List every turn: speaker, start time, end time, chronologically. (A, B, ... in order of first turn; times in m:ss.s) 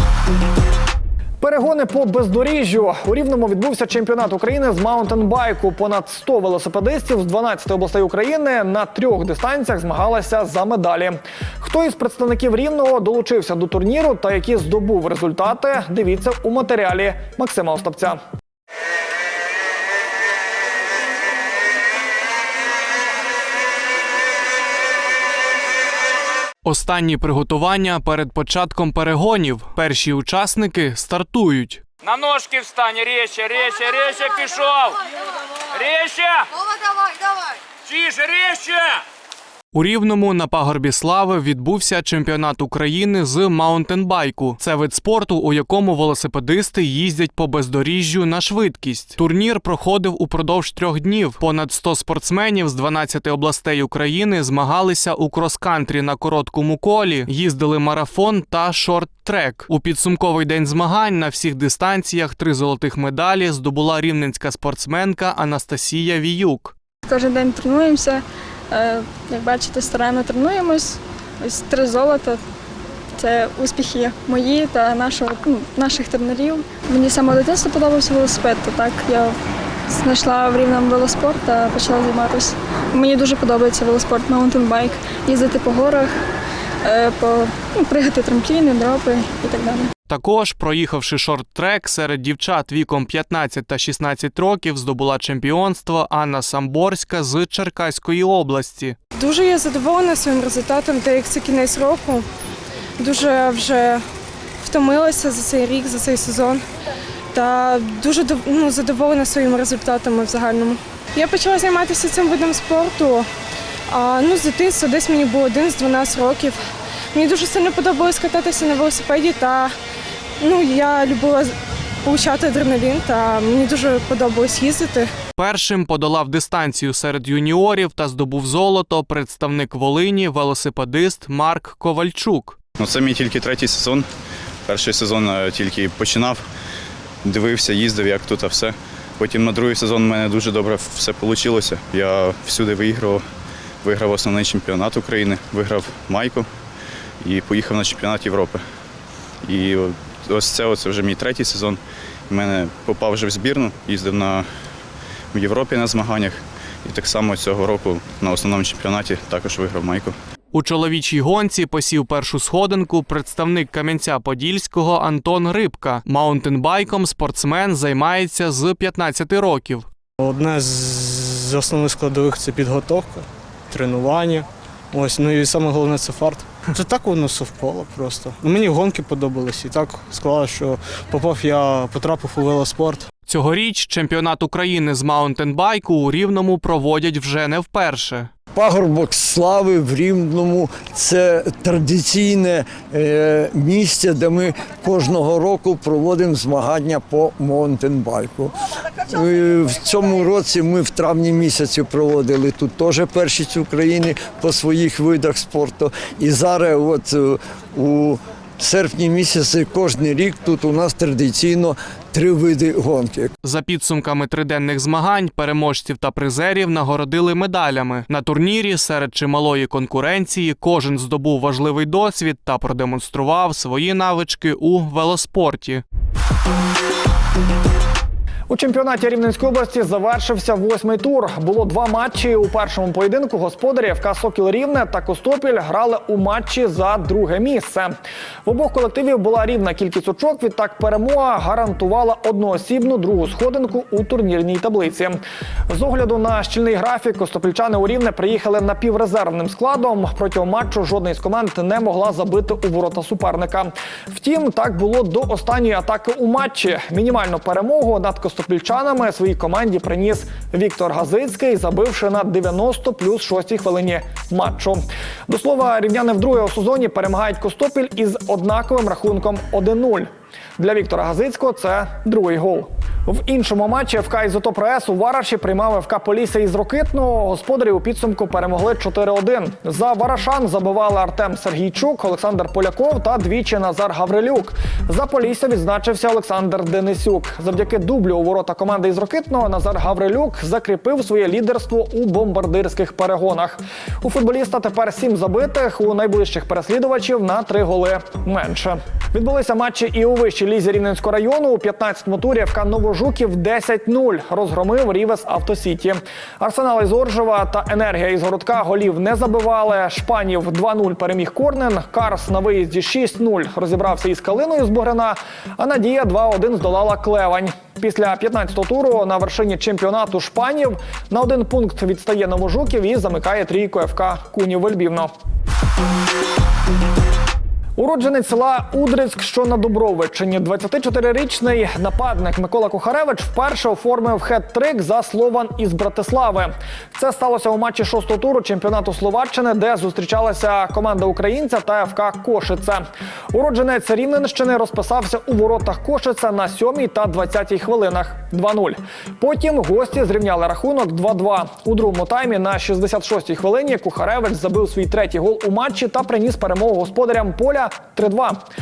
0:01.4-0:18.2 A
0:26.6-0:31.8 B
0:32.0-0:35.0 C
0:35.7-0:36.5 C
0:37.9-0:39.0 C
0:39.7-1:06.7 B
1:07.0-1:12.4 D
1:13.2-1:26.1 D
1:26.8-1:29.9 D
1:30.1-1:39.0 B
1:39.2-1:42.3 E
1:43.0-1:44.0 E
1:44.6-1:46.6 E
1:47.3-1:53.3 E
1:53.9-1:56.6 E
1:57.1-1:59.7 E
2:00.4-2:01.5 E
2:02.0-2:05.1 E
2:05.4-2:12.6 B
2:12.8-2:14.1 F
2:14.7-2:16.4 F
2:17.2-2:23.2 F
2:23.8-2:26.5 F
2:27.2-2:28.6 F
2:29.4-2:34.5 F
2:35.3-2:40.1 F
2:40.5-2:49.9 B
2:50.2-3:03.1 G
3:03.3-3:08.3 B
3:08.5-3:33.3 H
3:33.4-3:45.8 B
3:48.5-3:57.9 A
3:58.4-5:25.1 A
5:27.8-5:58.4 A